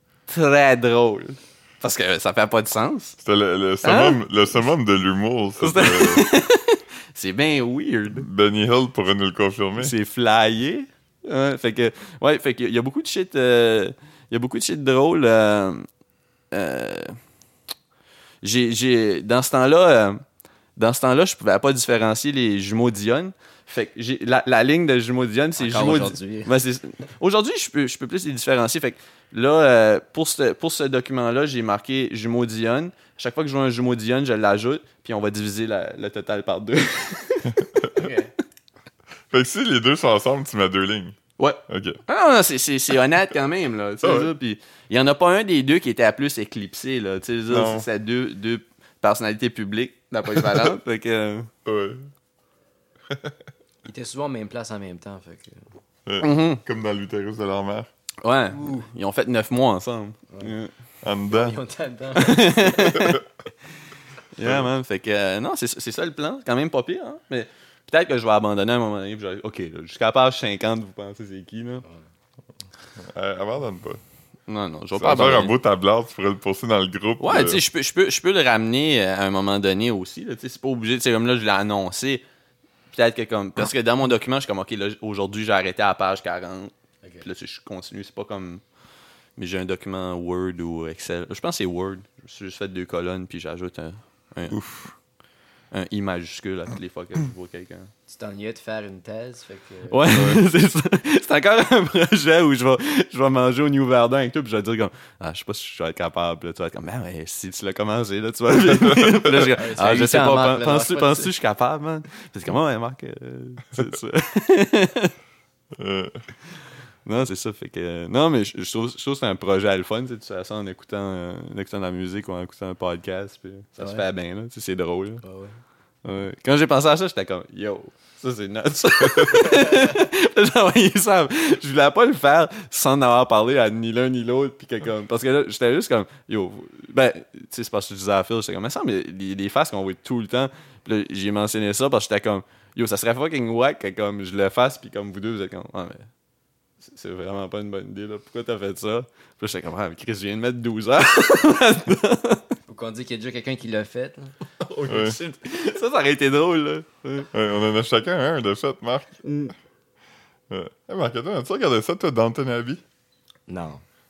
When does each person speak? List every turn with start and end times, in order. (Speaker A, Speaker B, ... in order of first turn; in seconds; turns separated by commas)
Speaker A: 0.3-3.2, Speaker B: 3.2-6.3, Speaker A: 3.8-4.2, Speaker A: 5.6-8.2, Speaker B: 8.1-9.9, Speaker A: 9.8-15.9, Speaker A: 16.5-17.2, Speaker A: 18.4-20.2, Speaker A: 20.8-37.7, Speaker C: 25.6-26.5, Speaker C: 38.0-38.3, Speaker B: 39.3-41.2, Speaker A: 41.4-51.5, Speaker B: 41.7-42.0, Speaker B: 44.0-44.3, Speaker B: 47.5-47.9, Speaker B: 50.3-50.7, Speaker B: 51.6-52.1, Speaker B: 53.1-53.4, Speaker C: 53.8-55.6, Speaker B: 56.1-57.9, Speaker A: 56.2-56.6, Speaker A: 58.2-60.7, Speaker B: 61.0-61.6, Speaker C: 61.3-63.0, Speaker A: 62.1-63.2, Speaker B: 62.9-63.2, Speaker A: 64.3-71.8, Speaker B: 64.4-64.7, Speaker B: 73.0-74.0, Speaker A: 74.5-75.5, Speaker B: 75.0-77.6, Speaker A: 77.2-82.2, Speaker A: 82.9-88.6, Speaker A: 89.4-94.6, Speaker B: 94.5-94.9, Speaker A: 95.7-97.9, Speaker C: 98.1-100.1, Speaker A: 99.9-115.1, Speaker B: 100.1-100.4, Speaker C: 109.4-111.3, Speaker B: 115.7-116.2, Speaker A: 117.0-125.2, Speaker C: 123.8-124.0, Speaker C: 125.2-125.5, Speaker A: 126.0-146.1, Speaker C: 129.6-129.8, Speaker A: 146.8-152.5, Speaker C: 152.7-154.3, Speaker A: 154.6-157.3, Speaker B: 154.9-155.2, Speaker B: 157.3-159.2, Speaker A: 159.2-159.5, Speaker B: 160.5-162.8, Speaker C: 163.5-163.8